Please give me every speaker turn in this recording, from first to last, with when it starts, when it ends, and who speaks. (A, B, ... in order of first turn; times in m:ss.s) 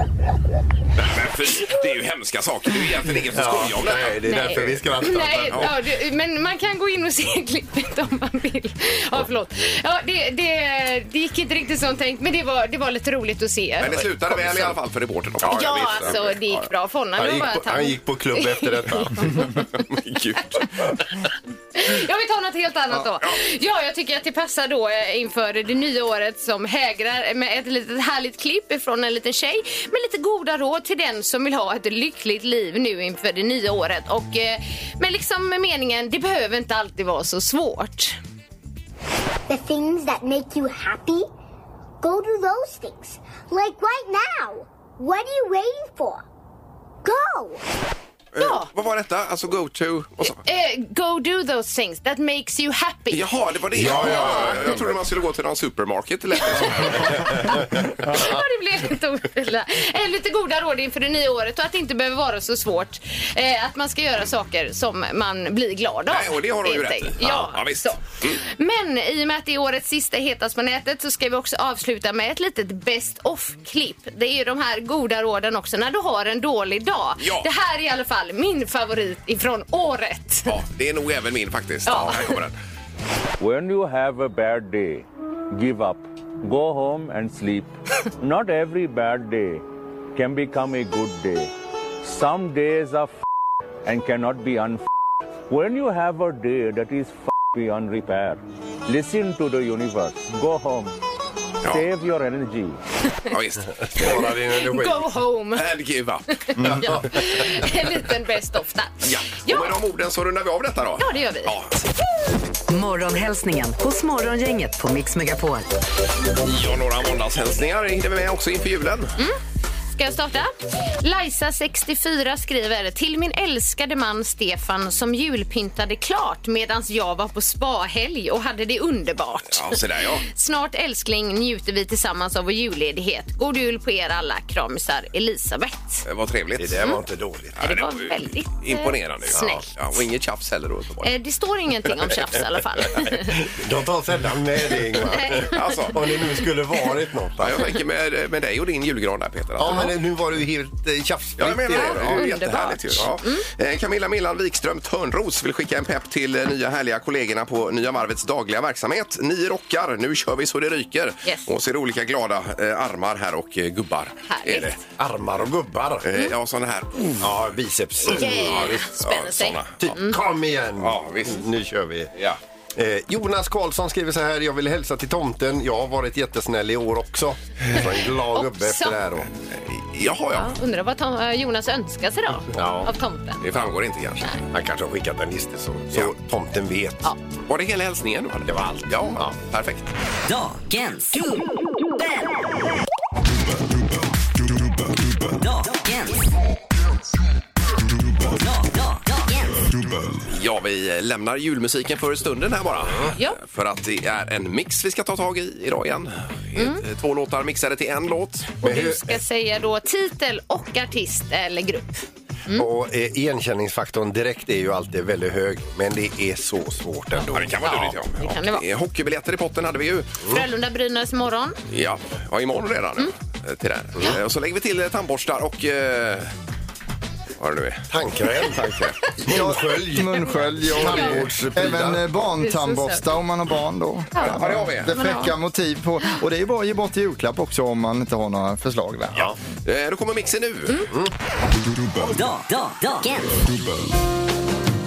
0:01.0-0:04.2 A
0:03.3-0:05.7 B
0:04.2-0:14.1 C
0:13.8-0:16.7 A
0:14.3-0:14.7 B
0:15.4-0:16.1 B
0:15.5-0:19.7 C
0:17.2-0:19.5 B
0:19.5-0:21.0 A
0:21.7-0:38.2 C
0:39.5-0:41.3 D
0:42.0-0:46.2 D
0:47.0-0:47.6 D
0:48.3-0:50.4 A
0:48.4-0:48.7 C
0:50.2-0:53.2 C
0:53.1-0:57.7 A
0:53.7-0:55.0 B
0:53.8-0:54.8 C
0:56.4-1:20.5 C
0:57.0-0:57.6 B
1:06.1-1:08.4 A
1:17.2-1:17.5 A
1:20.5-1:22.5 A
1:21.8-1:22.4 C
1:23.4-1:31.5 E
1:32.0-1:33.1 E
1:33.8-1:34.8 E
1:35.5-1:40.9 E
1:41.6-1:42.8 E
1:43.3-1:43.7 A
1:43.8-1:45.1 B
1:44.0-1:45.6 C
1:45.5-1:47.1 A
1:46.5-1:49.8 C
1:46.6-1:47.4 B
1:49.0-1:51.8 A
1:51.0-1:51.5 C
1:52.7-1:55.7 F
1:56.4-1:59.2 A
1:59.9-2:16.0 C
2:09.5-2:10.2 A
2:16.0-2:16.9 A
2:16.6-2:17.6 B
2:17.6-2:21.1 A
2:17.6-2:20.0 C
2:19.3-2:19.6 B
2:21.0-2:23.4 C
2:23.2-2:27.7 B
2:25.1-2:25.8 C
2:25.3-2:26.1 A
2:27.4-2:29.9 A
2:29.6-2:32.4 B
2:31.4-2:44.8 A
2:31.7-2:33.4 C
2:41.2-2:41.5 C
2:44.3-2:44.8 C
2:45.0-2:46.1 B
2:46.0-2:47.3 A
2:47.2-2:48.8 B
2:48.0-2:50.2 C
2:48.2-2:50.0 A
2:49.8-2:52.1 B
2:50.8-2:51.4 A
2:52.8-2:59.3 B
2:58.3-2:59.0 C
2:59.5-3:00.5 A
3:00.3-3:03.4 C
3:02.5-3:02.9 B
3:03.4-3:04.3 A
3:04.5-3:07.1 B
3:07.5-3:09.9 A
3:08.4-3:09.4 B
3:10.2-3:12.3 G
3:15.1-3:16.2 G
3:18.2-3:19.7 G
3:20.3-3:28.7 A
3:28.6-3:32.7 C
3:28.6-3:29.2 B
3:32.5-3:37.9 B
3:37.2-3:40.2 A
3:38.2-3:38.6 C
3:40.2-3:41.6 C
3:41.7-3:46.3 A
3:47.4-3:47.9 A
3:47.9-3:52.1 B
3:48.4-3:48.9 A
3:49.2-3:59.2 H
3:50.1-3:51.2 C
3:52.4-3:53.0 C
3:54.1-3:55.3 C
3:54.2-3:54.9 A
3:59.6-4:00.9 A
4:02.0-4:03.7 G